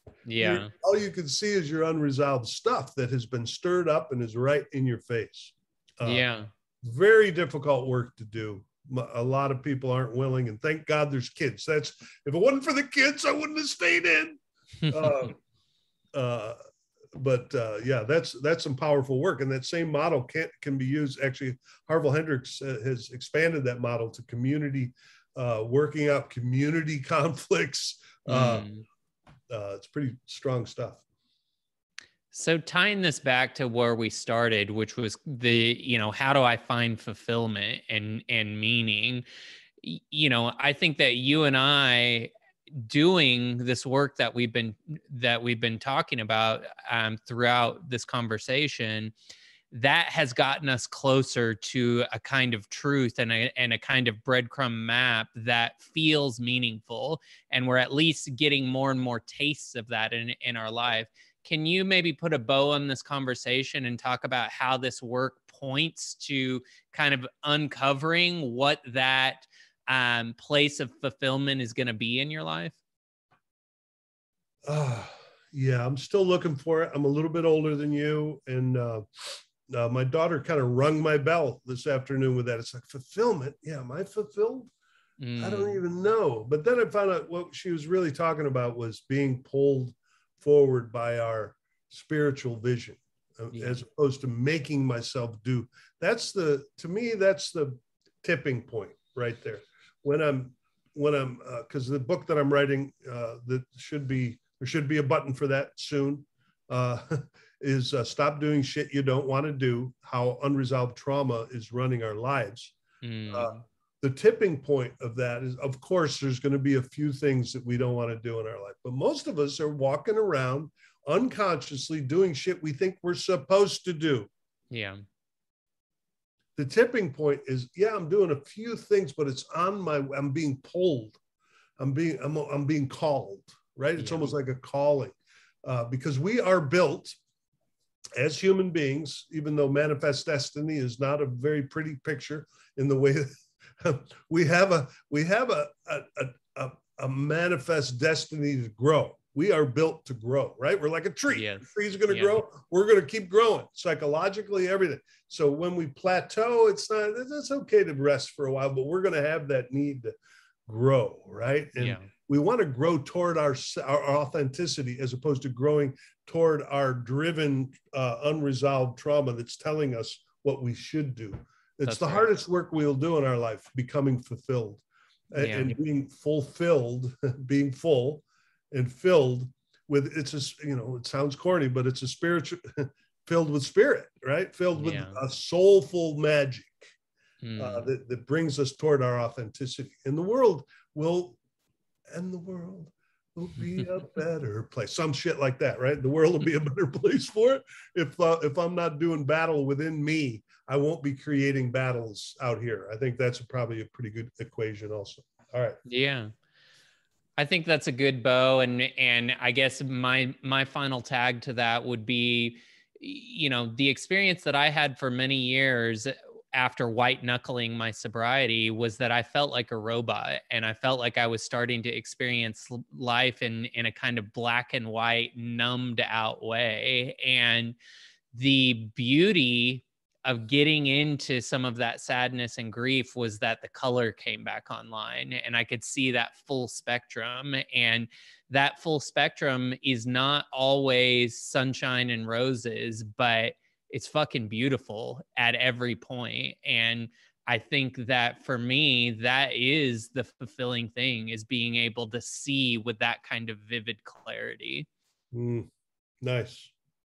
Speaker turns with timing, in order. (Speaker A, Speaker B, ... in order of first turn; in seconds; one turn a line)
Speaker A: 0.3-0.7
Speaker B: 0.4-6.2
Speaker A: 6.0-6.5
Speaker B: 6.8-15.4
Speaker A: 14.8-15.3
Speaker B: 16.1-16.6
Speaker B: 17.2-28.7
Speaker A: 28.3-28.8
Speaker B: 29.5-31.0
Speaker A: 32.3-39.2
Speaker A: 39.8-49.1
Speaker A: 49.7-72.8
Speaker B: 74.7-84.7
Speaker A: 85.2-85.8
Speaker B: 85.4-112.8
Speaker A: 93.5-93.8
Speaker A: 113.0-113.6
Speaker B: 113.3-124.3
Speaker A: 124.7-125.0
Speaker B: 126.6-131.2
Speaker B: 131.8-137.2
Speaker A: 134.0-134.3
Speaker B: 138.2-160.1
Speaker A: 151.3-152.4
Speaker B: 160.7-186.9
Speaker A: 161.8-162.1
Speaker A: 171.9-172.3
Speaker A: 175.4-175.8
Speaker A: 184.8-185.2
Speaker A: 187.4-187.9
Speaker B: 187.6-191.4
Speaker B: 192.1-205.8
Speaker A: 205.8-206.3
Speaker A: 207.4-227.8
Speaker A: 228.3-254.9
Speaker B: 255.3-255.7
Speaker B: 256.2-256.7